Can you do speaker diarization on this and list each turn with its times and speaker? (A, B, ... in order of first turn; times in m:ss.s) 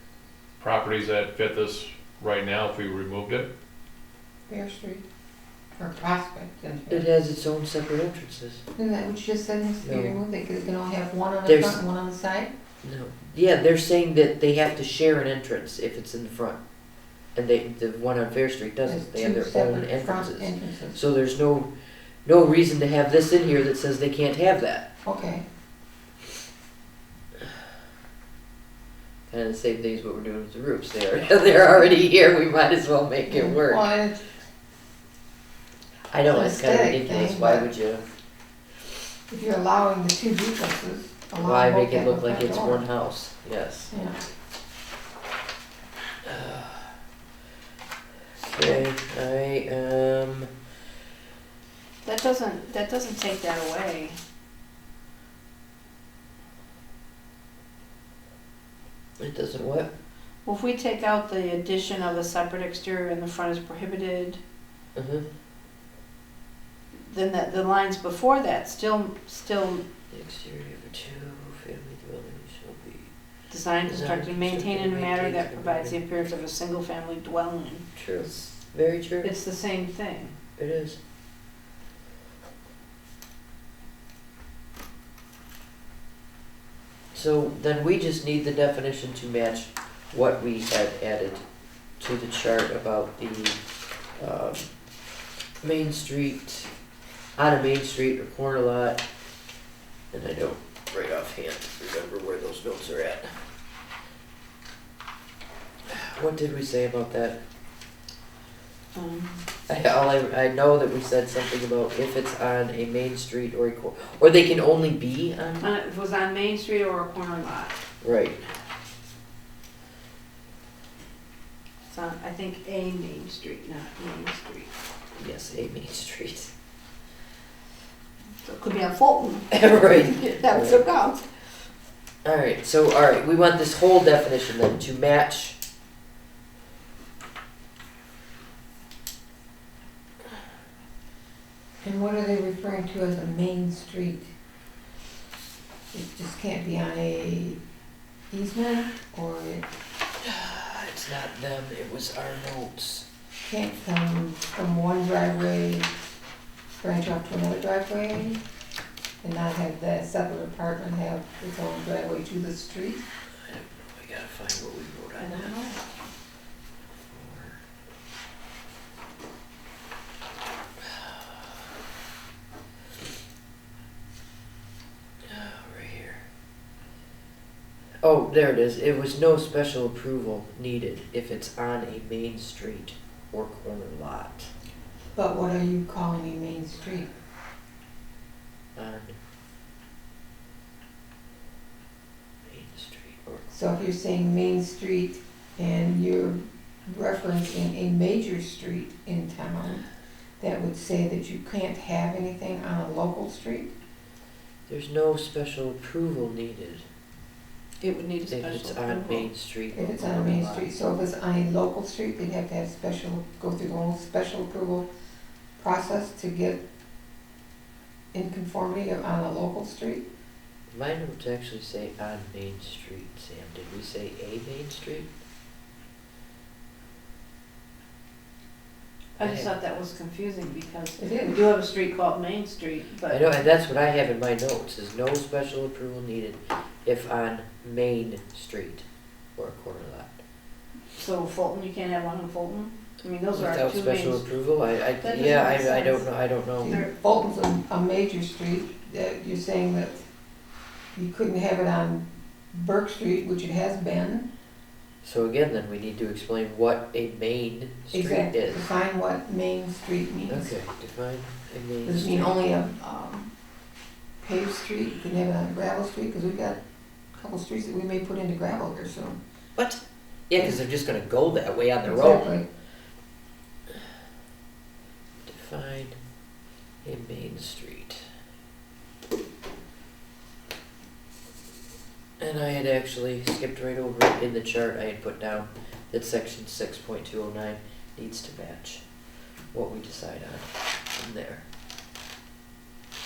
0:00.6-0:03.5 A
0:04.5-0:05.0 B
0:05.8-0:07.1 B
0:06.9-0:08.6 C
0:08.8-0:12.5 B
0:09.8-0:10.2 C
0:11.5-0:11.8 C
0:12.8-0:16.6 C
0:17.4-0:21.7 C
0:18.8-0:21.0 B
0:22.2-0:24.9 C
0:25.0-0:25.4 B
0:29.3-0:33.8 C
0:33.3-0:34.2 B
0:36.1-0:38.0 C
0:36.3-0:37.7 B
0:39.3-0:42.9 B
0:41.4-0:43.9 C
0:43.9-0:44.2 B
0:46.2-0:47.0 C
0:48.4-0:50.5 C
0:52.0-0:54.2 D
0:59.2-0:59.9 C
1:00.4-1:04.4 D
1:05.0-1:05.2 C
1:07.0-1:09.9 D
1:10.1-1:13.1 C
1:13.5-1:17.8 D
1:13.8-1:16.0 C
1:18.0-1:19.3 C
1:19.2-1:20.4 D
1:20.6-1:21.0 C
1:27.1-1:31.4 C
1:32.0-1:33.6 C
1:34.2-1:34.7 C
1:35.6-1:36.7 C
1:37.4-1:39.0 C
1:40.1-1:43.3 C
1:45.9-1:47.4 C
1:48.9-1:49.5 D
1:49.7-1:55.7 C
1:55.6-1:57.8 D
1:58.0-1:58.4 C
2:01.9-2:04.7 D
2:05.2-2:06.5 C
2:08.4-2:11.2 D
2:09.5-2:10.9 C
2:12.2-2:15.6 C
2:21.8-2:24.3 B
2:25.9-2:27.6 B
2:28.3-2:29.7 B
2:30.2-2:33.1 C
2:33.4-2:35.9 B
2:36.8-2:38.4 B
2:39.2-2:43.1 B
2:43.4-2:45.6 C
2:45.2-2:45.9 D
2:47.1-2:47.6 C
2:50.8-2:51.4 C
2:55.3-2:56.2 C
2:58.0-3:04.5 C
3:05.2-3:07.1 B
3:08.8-3:09.2 C
3:12.4-3:13.5 C
3:13.5-3:19.9 B
3:20.4-3:23.7 B
3:24.7-3:26.8 C
3:27.8-3:29.3 D
3:28.3-3:30.7 C
3:29.7-3:34.9 B
3:35.6-3:36.6 B
3:38.1-3:40.0 B
3:40.7-3:45.1 C
3:49.2-3:53.3 D
3:49.2-3:49.5 C
3:51.0-3:51.4 B
3:53.1-3:58.8 C
3:59.4-4:00.2 C
4:01.0-4:04.2 D
4:03.3-4:06.8 C
4:05.0-4:06.1 D
4:06.6-4:10.1 B
4:06.7-4:07.0 D
4:10.9-4:14.3 B
4:15.0-4:18.7 C
4:17.9-4:20.5 B
4:20.3-4:22.4 C
4:21.8-4:23.3 B
4:24.2-4:26.6 B
4:27.2-4:29.2 B
4:29.6-4:32.3 C
4:31.8-4:32.5 B
4:35.2-4:36.0 C
4:36.8-4:38.0 C
4:42.2-4:48.8 C
4:49.5-4:51.4 C